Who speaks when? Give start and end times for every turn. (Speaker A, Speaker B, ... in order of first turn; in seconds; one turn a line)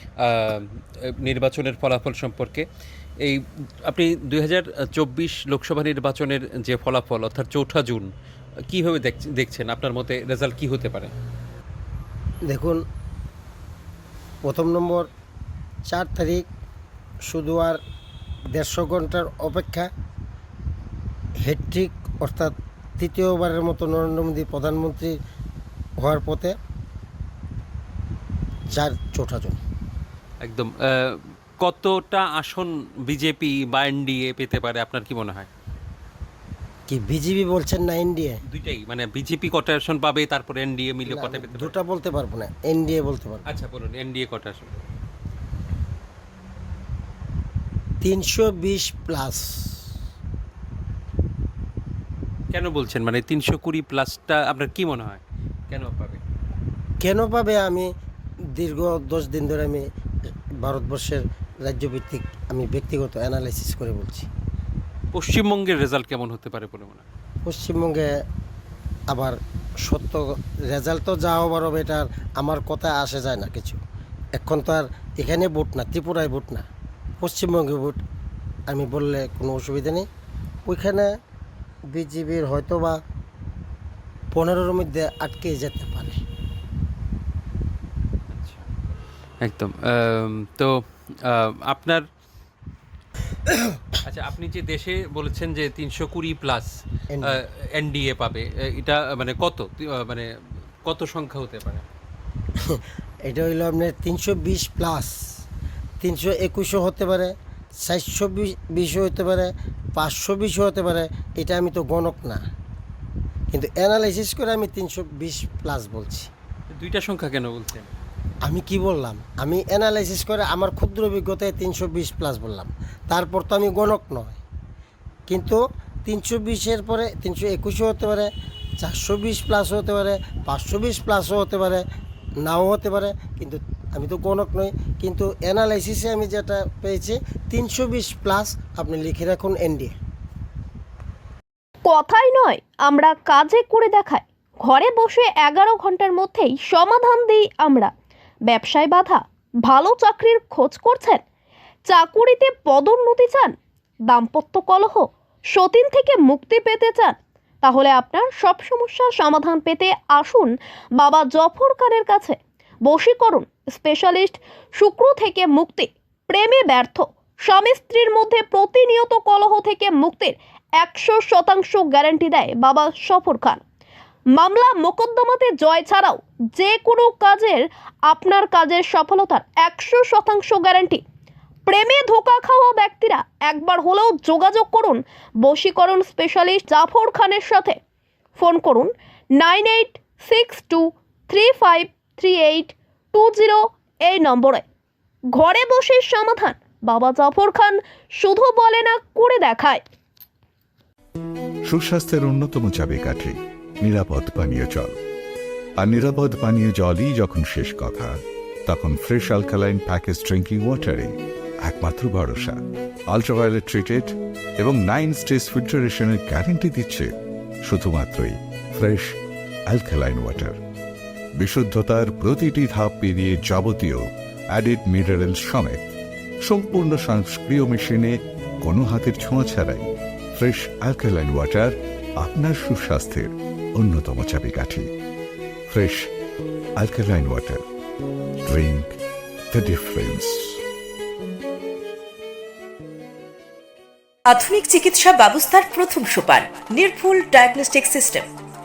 Speaker A: 0.2-2.7
Speaker A: 3.2-8.1
Speaker A: 8.7-11.1
Speaker B: 12.5-12.8
Speaker B: 14.4-15.1
Speaker B: 15.9-16.5
Speaker B: 17.3-17.8
Speaker B: 18.5-19.9
Speaker B: 21.4-25.1
Speaker B: 26.0-26.6
Speaker B: 28.7-29.6
Speaker A: 30.4-35.5
Speaker B: 36.9-38.4
Speaker A: 38.5-41.7
Speaker B: 41.0-43.4
Speaker A: 43.5-44.8
Speaker B: 48.0-49.8
Speaker A: 52.5-56.2
Speaker B: 57.0-57.9
Speaker B: 58.5-59.8
Speaker B: 60.6-64.3
Speaker A: 65.1-67.0
Speaker B: 67.5-68.1
Speaker B: 69.1-73.8
Speaker B: 74.4-76.6
Speaker B: 77.2-78.0
Speaker B: 78.7-80.1
Speaker B: 80.7-81.1
Speaker B: 81.9-83.0
Speaker B: 84.3-86.2
Speaker A: 88.3-88.7
Speaker A: 89.4-92.0
Speaker A: 94.0-96.7
Speaker B: 97.1-97.4
Speaker A: 97.2-100.3
Speaker A: 100.8-101.8
Speaker B: 102.7-105.1
Speaker B: 106.0-112.4
Speaker B: 113.5-116.3
Speaker A: 116.8-117.9
Speaker B: 118.4-124.4
Speaker B: 125.3-131.8
Speaker B: 132.4-139.9
Speaker C: 141.9-147.9
Speaker C: 148.5-151.2
Speaker C: 151.9-153.6
Speaker C: 154.1-173.6
Speaker C: 174.3-181.0
Speaker C: 181.7-187.8
Speaker C: 188.4-194.6
Speaker C: 195.3-199.8
Speaker D: 201.7-205.0
Speaker D: 205.8-208.2
Speaker D: 208.7-212.6
Speaker D: 213.1-217.1
Speaker D: 217.7-219.2
Speaker D: 219.7-220.6
Speaker D: 221.4-225.9
Speaker D: 226.4-234.9
Speaker D: 235.7-236.1
Speaker D: 236.8-237.6
Speaker D: 238.4-238.9
Speaker D: 239.5-240.6
Speaker E: 244.3-248.3